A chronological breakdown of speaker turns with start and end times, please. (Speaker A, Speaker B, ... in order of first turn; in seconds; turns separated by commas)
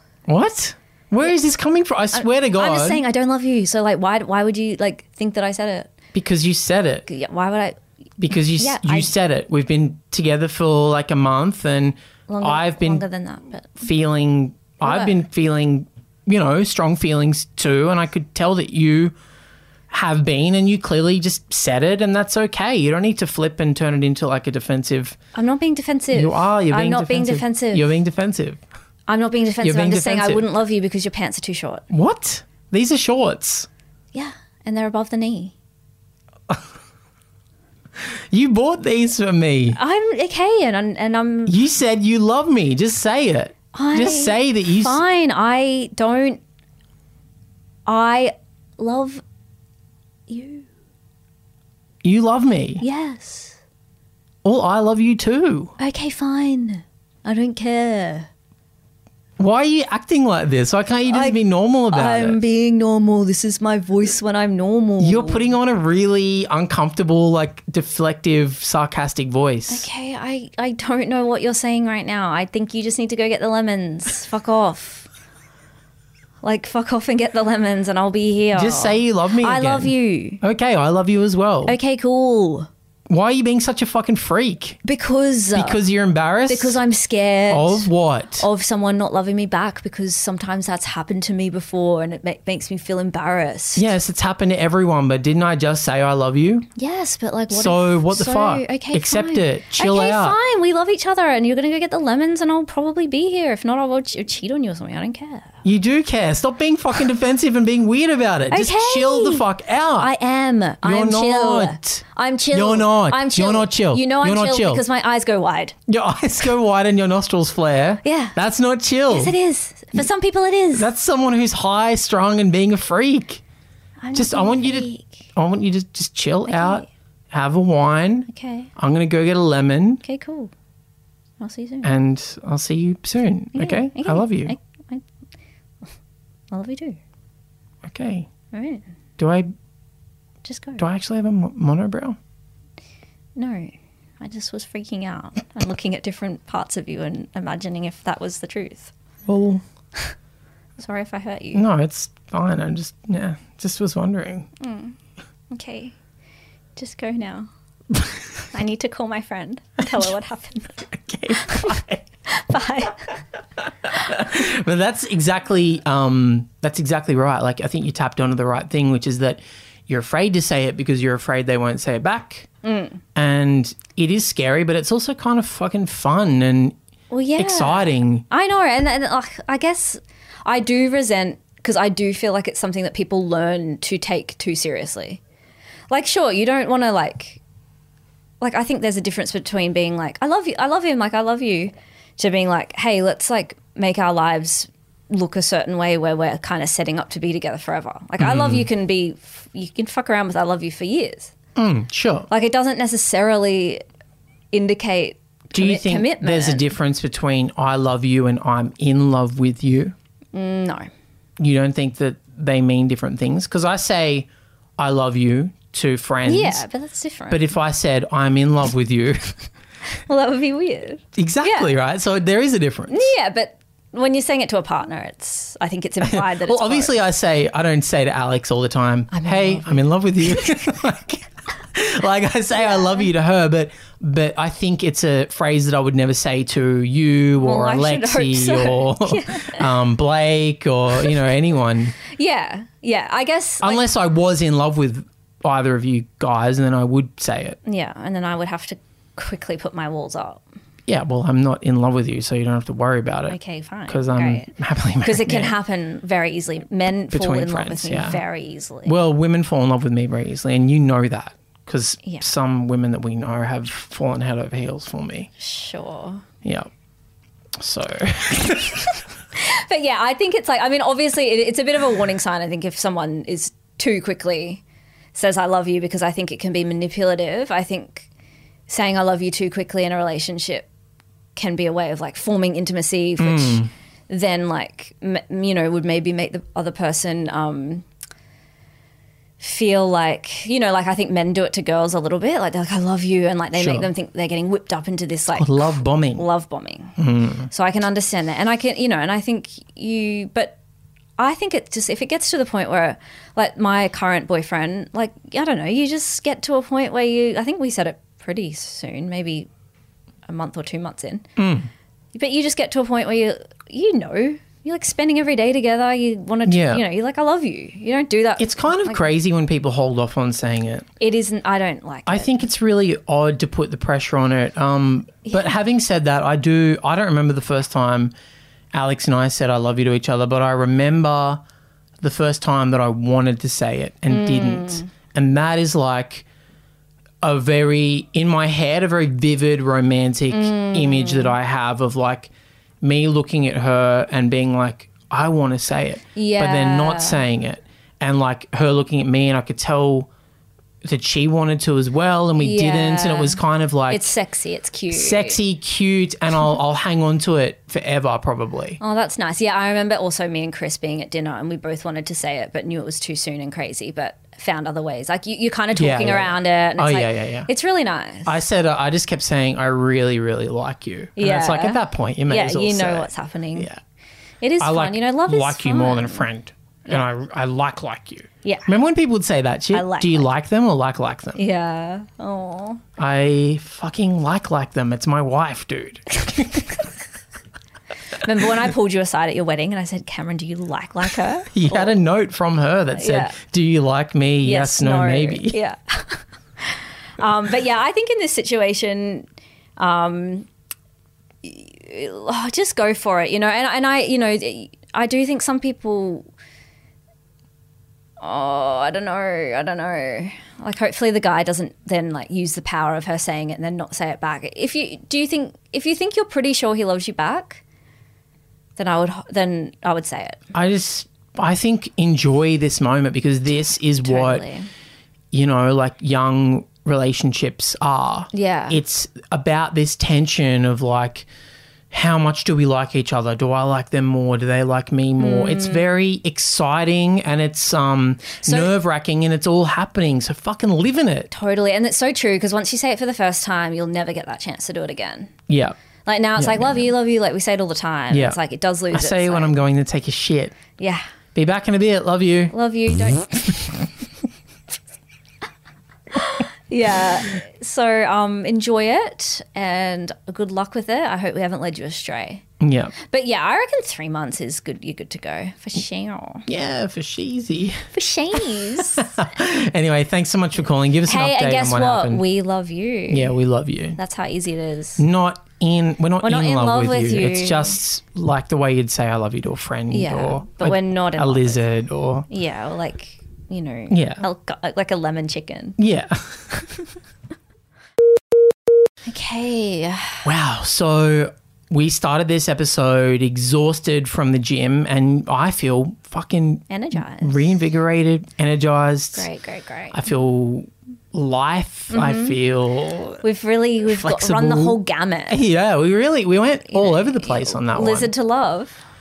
Speaker A: 0.3-3.0, Speaker B: 2.1-5.9, Speaker A: 6.1-7.1, Speaker B: 7.1-7.8, Speaker A: 8.2-13.0, Speaker B: 8.6-9.1, Speaker B: 12.3-13.8, Speaker A: 13.8-19.1, Speaker B: 14.8-15.1, Speaker A: 19.9-25.2, Speaker B: 25.3-27.9, Speaker A: 26.1-28.6, Speaker B: 29.1-31.8, Speaker A: 29.6-30.4, Speaker A: 31.9-33.7, Speaker B: 34.1-35.5, Speaker A: 38.0-39.8, Speaker B: 39.7-41.6, Speaker A: 41.5-45.0, Speaker B: 43.7-46.4, Speaker B: 47.9-49.2, Speaker B: 50.3-50.7, Speaker A: 52.0-52.8, Speaker B: 52.8-53.6, Speaker A: 54.4-55.7, Speaker B: 55.8-58.3, Speaker A: 59.4-62.4, Speaker B: 61.0-65.5, Speaker A: 65.0-69.9, Speaker B: 69.7-75.1, Speaker B: 76.4-80.4, Speaker A: 78.5-81.8, Speaker B: 81.7-82.7, Speaker A: 83.1-84.8, Speaker B: 84.8-85.8, Speaker A: 85.5-86.8, Speaker B: 86.5-93.8, Speaker A: 87.5-88.5, Speaker A: 93.8-96.7, Speaker B: 96.8-105.5, Speaker A: 97.5-100.4, Speaker A: 105.6-110.1, Speaker B: 108.5-109.4, Speaker B: 110.0-115.7, Speaker A: 110.8-114.8, Speaker A: 115.9-119.3, Speaker B: 118.0-118.4, Speaker B: 119.1-120.9, Speaker A: 120.7-123.4, Speaker B: 124.0-125.2, Speaker A: 124.1-130.0, Speaker B: 126.5-126.9, Speaker B: 128.3-128.7, Speaker B: 130.0-130.5, Speaker B: 131.4-131.9, Speaker A: 131.8-134.5, Speaker B: 133.5-135.0, Speaker B: 136.5-137.0, Speaker A: 137.8-138.3, Speaker B: 138.5-138.8, Speaker A: 139.2-139.5, Speaker B: 140.4-140.8, Speaker A: 140.8-142.2, Speaker B: 143.3-148.9, Speaker A: 149.2-149.6, Speaker B: 150.8-151.6, Speaker A: 151.5-154.5, Speaker B: 154.6-154.9, Speaker B: 155.5-155.9, Speaker B: 156.8-157.5, Speaker B: 158.5-160.8, Speaker A: 159.8-160.1, Speaker A: 160.8-162.0, Speaker B: 161.3-163.1, Speaker A: 163.8-172.5, Speaker B: 172.6-173.0, Speaker A: 173.1-176.8, Speaker B: 177.1-185.2, Speaker A: 177.4-178.2, Speaker B: 185.9-187.4, Speaker B: 188.4-201.3, Speaker A: 198.2-198.7, Speaker A: 201.6-202.3, Speaker B: 202.3-203.8, Speaker B: 204.5-206.7, Speaker A: 205.5-209.9, Speaker B: 210.3-210.9, Speaker A: 211.4-216.6, Speaker B: 216.2-217.4, Speaker A: 217.3-219.3, Speaker B: 220.1-221.7, Speaker A: 221.1-223.1, Speaker B: 222.9-226.9, Speaker A: 226.0-242.0, Speaker B: 229.1-230.6, Speaker B: 232.6-233.1, Speaker B: 237.4-239.7, Speaker B: 242.1-243.8, Speaker A: 243.6-247.6, Speaker B: 247.6-250.4, Speaker A: 250.9-255.6, Speaker B: 253.3-254.5, Speaker B: 255.0-258.9, Speaker A: 257.1-258.2, Speaker A: 258.8-265.3, Speaker B: 265.4-266.2, Speaker A: 266.4-266.7, Speaker A: 267.6-268.9, Speaker B: 269.4-274.6, Speaker B: 275.1-278.1, Speaker B: 278.7-280.7, Speaker B: 281.4-287.8, Speaker A: 283.2-283.7, Speaker B: 289.4-296.9, Speaker A: 293.5-293.9, Speaker A: 295.4-296.2, Speaker A: 297.0-297.5, Speaker B: 297.5-300.6, Speaker B: 301.2-309.5, Speaker B: 310.3-311.3, Speaker A: 311.4-311.7, Speaker B: 312.1-319.1, Speaker A: 316.4-316.8, Speaker A: 318.4-320.9, Speaker B: 321.0-322.4, Speaker A: 322.1-328.1, Speaker B: 325.2-325.5, Speaker A: 328.7-331.4, Speaker A: 332.0-336.2, Speaker B: 334.1-334.9, Speaker A: 337.2-350.1, Speaker B: 340.3-341.3, Speaker B: 346.1-347.2, Speaker A: 350.8-354.1, Speaker B: 352.4-355.4, Speaker A: 354.9-358.8, Speaker B: 358.8-368.4, Speaker A: 365.7-367.5, Speaker A: 368.2-373.8, Speaker B: 371.2-373.7, Speaker B: 374.4-376.3, Speaker A: 374.6-381.4, Speaker B: 378.4-378.7, Speaker B: 379.7-380.3, Speaker B: 381.3-382.8, Speaker A: 383.0-386.7, Speaker B: 386.2-386.8, Speaker B: 388.2-391.9, Speaker A: 391.5-395.6, Speaker B: 392.9-393.4, Speaker B: 394.4-399.2, Speaker B: 399.8-400.5, Speaker B: 401.4-406.2, Speaker B: 408.2-417.6, Speaker B: 418.8-420.4, Speaker A: 420.5-424.4, Speaker B: 424.0-424.7, Speaker A: 425.3-431.3, Speaker B: 428.3-428.8, Speaker A: 431.9-441.3, Speaker B: 435.2-435.8, Speaker B: 438.4-438.7, Speaker B: 441.3-445.3, Speaker A: 445.5-445.7, Speaker B: 446.1-449.5, Speaker A: 446.4-446.9, Speaker A: 448.1-448.4, Speaker A: 448.9-450.6, Speaker B: 450.8-451.0, Speaker A: 451.3-452.5, Speaker B: 452.5-453.8, Speaker B: 456.1-462.4, Speaker A: 462.6-462.9, Speaker B: 463.0-466.4, Speaker A: 466.5-467.9, Speaker B: 467.9-469.1, Speaker A: 468.5-472.2, Speaker B: 471.1-473.3, Speaker A: 473.1-474.0, Speaker B: 473.9-475.0, Speaker A: 475.0-482.3, Speaker B: 476.2-477.8, Speaker B: 479.9-481.6, Speaker B: 482.3-485.8, Speaker A: 483.9-484.2, Speaker A: 485.8-486.5, Speaker B: 489.1-490.2, Speaker A: 490.2-499.3, Speaker B: 496.7-497.4, Speaker B: 499.1-500.0, Speaker A: 499.9-503.2, Speaker B: 501.9-502.4, Speaker B: 503.2-505.4, Speaker A: 503.8-508.1, Speaker B: 506.7-508.7